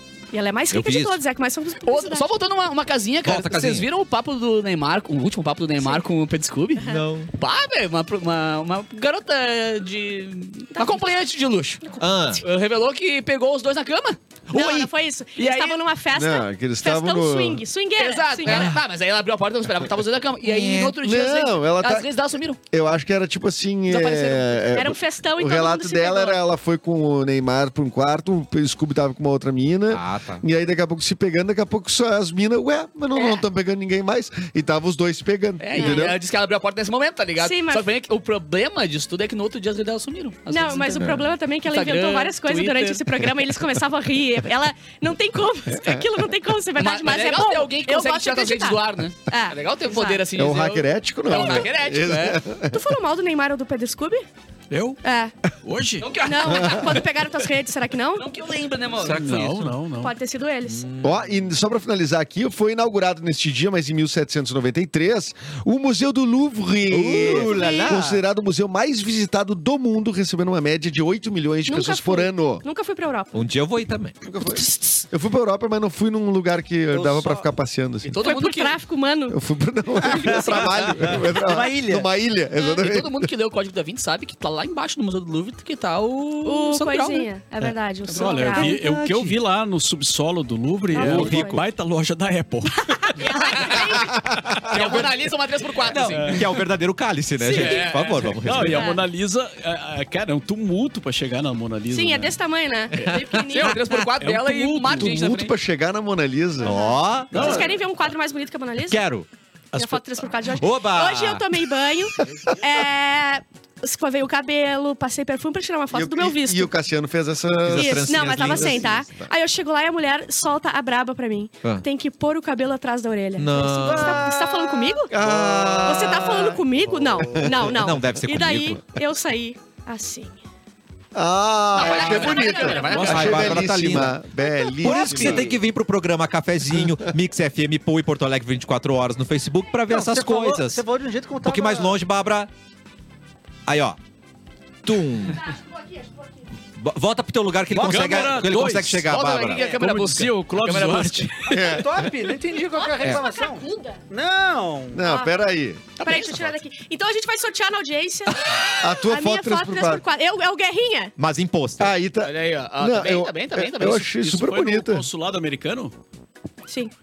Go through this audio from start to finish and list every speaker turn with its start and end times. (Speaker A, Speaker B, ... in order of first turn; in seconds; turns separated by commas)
Speaker A: 0.3-2.3, Speaker B: 0.7-1.2, Speaker C: 1.9-11.8, Speaker B: 3.2-3.9, Speaker B: 6.8-7.3, Speaker A: 10.7-11.1, Speaker A: 11.8-12.4, Speaker B: 12.0-12.4, Speaker C: 12.4-15.8, Speaker A: 14.5-18.7, Speaker D: 16.1-17.6, Speaker C: 18.0-22.6, Speaker B: 18.4-18.8, Speaker B: 20.4-20.9, Speaker D: 21.0-22.1, Speaker D: 22.7-36.2, Speaker C: 23.9-24.6, Speaker A: 24.7-26.4, Speaker B: 29.9-30.4, Speaker A: 33.1-33.4, Speaker C: 35.6-43.2, Speaker A: 35.7-36.1, Speaker A: 37.4-37.9, Speaker A: 40.5-50.2, Speaker C: 46.8-52.4, Speaker D: 50.4-52.8, Speaker A: 52.7-54.2, Speaker E: 54.7-55.0, Speaker A: 55.0-55.3, Speaker E: 55.6-56.1, Speaker C: 56.0-57.0, Speaker A: 56.2-58.3, Speaker D: 56.5-56.9, Speaker C: 58.2-59.3, Speaker B: 59.0-59.8, Speaker E: 59.0-60.1, Speaker A: 60.0-60.9, Speaker B: 60.7-61.4, Speaker D: 61.0-72.6, Speaker B: 66.9-68.2, Speaker A: 67.2-67.9, Speaker A: 71.7-73.4, Speaker B: 73.3-74.2, Speaker D: 74.2-78.1, Speaker A: 74.4-75.0, Speaker F: 76.9-77.4, Speaker C: 78.0-78.8, Speaker A: 78.2-79.4, Speaker D: 79.3-83.2, Speaker A: 80.0-80.7, Speaker F: 80.1-82.1, Speaker C: 82.5-87.3, Speaker A: 86.4-88.8, Speaker E: 88.1-93.2, Speaker C: 88.1-88.6, Speaker F: 88.6-89.1, Speaker A: 90.9-91.6, Speaker B: 91.0-91.6, Speaker A: 93.0-94.2, Speaker C: 93.3-94.0, Speaker B: 94.5-95.0, Speaker C: 94.7-96.4, Speaker B: 95.9-98.9, Speaker E: 96.1-96.6, Speaker A: 97.4-97.9, Speaker C: 97.5-98.4, Speaker E: 98.4-102.4, Speaker A: 98.7-99.0, Speaker A: 101.9-103.8, Speaker B: 103.0-103.6, Speaker C: 103.0-105.5, Speaker E: 104.1-105.3, Speaker D: 105.0-106.8, Speaker B: 106.6-107.6, Speaker A: 106.6-109.0, Speaker E: 107.3-107.7, Speaker B: 108.9-111.5, Speaker A: 109.7-116.7, Speaker D: 115.9-119.3, Speaker B: 117.6-119.0, Speaker A: 117.7-125.1, Speaker B: 123.4-124.3, Speaker D: 125.1-127.8, Speaker B: 125.2-126.2, Speaker A: 125.8-130.4, Speaker B: 127.5-128.8, Speaker D: 131.1-135.6, Speaker C: 131.7-133.7, Speaker A: 131.8-133.2, Speaker B: 132.9-134.2, Speaker A: 134.4-134.8, Speaker B: 134.8-140.8, Speaker F: 134.9-135.4, Speaker D: 136.7-137.1, Speaker F: 139.9-142.0, Speaker B: 141.4-142.5, Speaker B: 143.7-144.0, Speaker B: 144.8-145.5, Speaker A: 145.4-146.2, Speaker B: 146.8-149.7, Speaker F: 147.7-148.4, Speaker E: 147.7-151.6, Speaker C: 148.9-151.5, Speaker D: 151.5-151.9, Speaker F: 151.5-155.1, Speaker A: 152.7-154.0, Speaker D: 154.9-155.9, Speaker A: 155.0-155.3, Speaker C: 156.0-156.5, Speaker A: 156.0-161.1, Speaker D: 158.8-160.0, Speaker B: 161.2-161.9, Speaker D: 161.8-165.1, Speaker C: 162.2-164.1, Speaker E: 164.1-165.9, Speaker A: 166.7-166.9